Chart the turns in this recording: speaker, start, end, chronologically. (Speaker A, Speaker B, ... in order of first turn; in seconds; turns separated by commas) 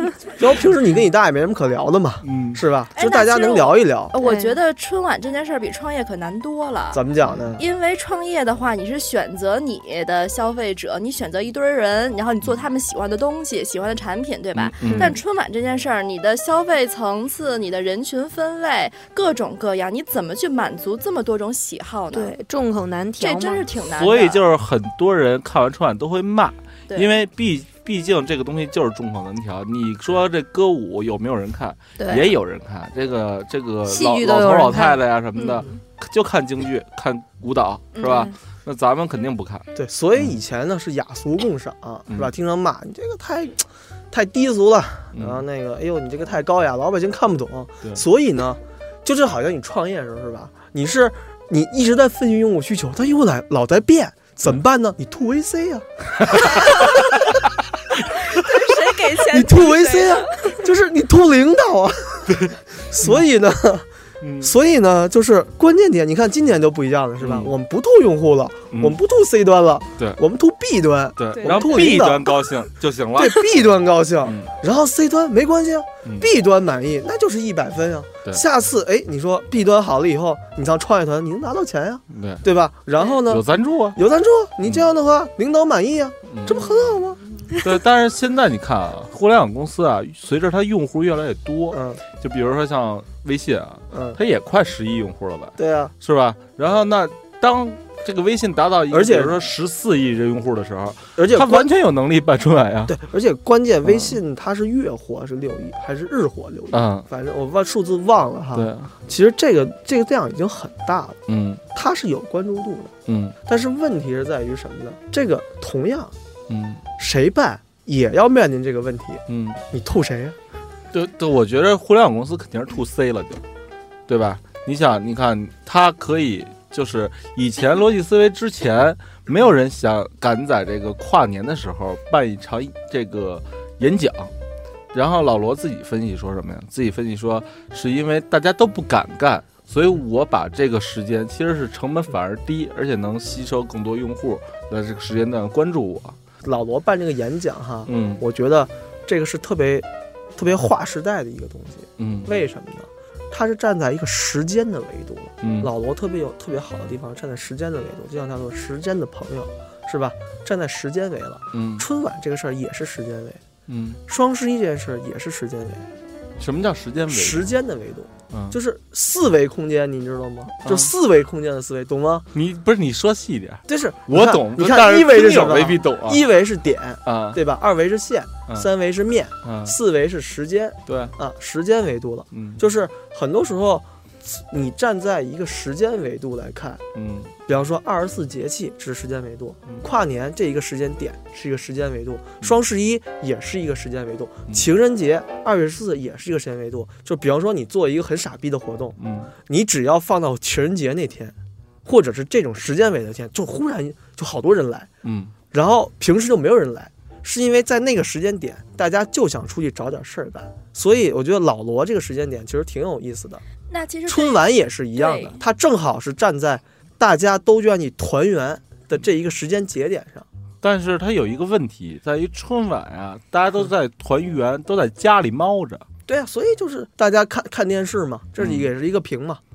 Speaker A: 0.4-4.2, Speaker B: 2.2-2.6, Speaker C: 3.0-7.0, Speaker D: 4.2-4.6, Speaker A: 6.9-7.6, Speaker C: 7.5-22.4, Speaker B: 14.6-15.2, Speaker D: 14.8-15.2, Speaker D: 22.1-23.6, Speaker C: 23.2-24.4, Speaker B: 23.9-40.4, Speaker C: 26.9-27.1, Speaker D: 32.0-32.3, Speaker D: 33.9-35.0, Speaker C: 35.4-35.8, Speaker C: 38.0-38.3, Speaker D: 38.0-38.3, Speaker A: 39.7-57.0, Speaker B: 45.1-45.4, Speaker B: 56.3-56.6, Speaker C: 58.1-60.6, Speaker A: 59.3-63.9, Speaker B: 62.3-63.2, Speaker B: 64.2-64.5, Speaker A: 64.4-72.3, Speaker B: 67.2-67.5, Speaker B: 71.2-73.7, Speaker C: 71.4-71.9, Speaker A: 73.2-87.2, Speaker B: 74.2-74.5, Speaker B: 82.1-82.4, Speaker B: 83.3-84.0, Speaker B: 86.3-86.6, Speaker B: 87.6-103.0, Speaker A: 91.7-92.0, Speaker A: 93.9-94.2, Speaker A: 95.6-95.9, Speaker A: 98.9-99.4, Speaker A: 101.2-101.7, Speaker A: 102.9-111.2, Speaker B: 103.8-104.2, Speaker B: 106.7-107.1, Speaker B: 108.5-108.9, Speaker B: 111.3-111.6, Speaker A: 111.7-112.9, Speaker B: 113.1-113.4, Speaker A: 113.5-116.1, Speaker B: 116.5-116.8, Speaker A: 117.0-120.4, Speaker B: 119.3-119.6, Speaker B: 120.9-123.4, Speaker B: 124.1-134.3, Speaker B: 134.9-146.2, Speaker A: 146.4-163.4, Speaker B: 147.9-148.2, Speaker B: 152.0-152.3, Speaker B: 155.4-155.7, Speaker B: 161.5-161.9, Speaker B: 163.7-164.0, Speaker A: 164.1-165.9, Speaker B: 166.4-167.4, Speaker A: 167.1-172.3, Speaker B: 168.3-168.6, Speaker B: 170.6-170.9, Speaker B: 172.3-176.2, Speaker A: 173.7-186.8, Speaker B: 177.1-177.4, Speaker B: 179.4-179.8, Speaker B: 180.9-181.1, Speaker B: 182.3-182.6, Speaker B: 186.9-187.3, Speaker A: 187.5-204.9, Speaker B: 199.0-199.3, Speaker B: 205.0-205.3, Speaker A: 205.5-213.4, Speaker C: 213.7-214.4, Speaker A: 214.1-220.3, Speaker C: 215.0-215.4, Speaker B: 220.6-225.8, Speaker A: 226.1-229.4, Speaker B: 228.4-228.7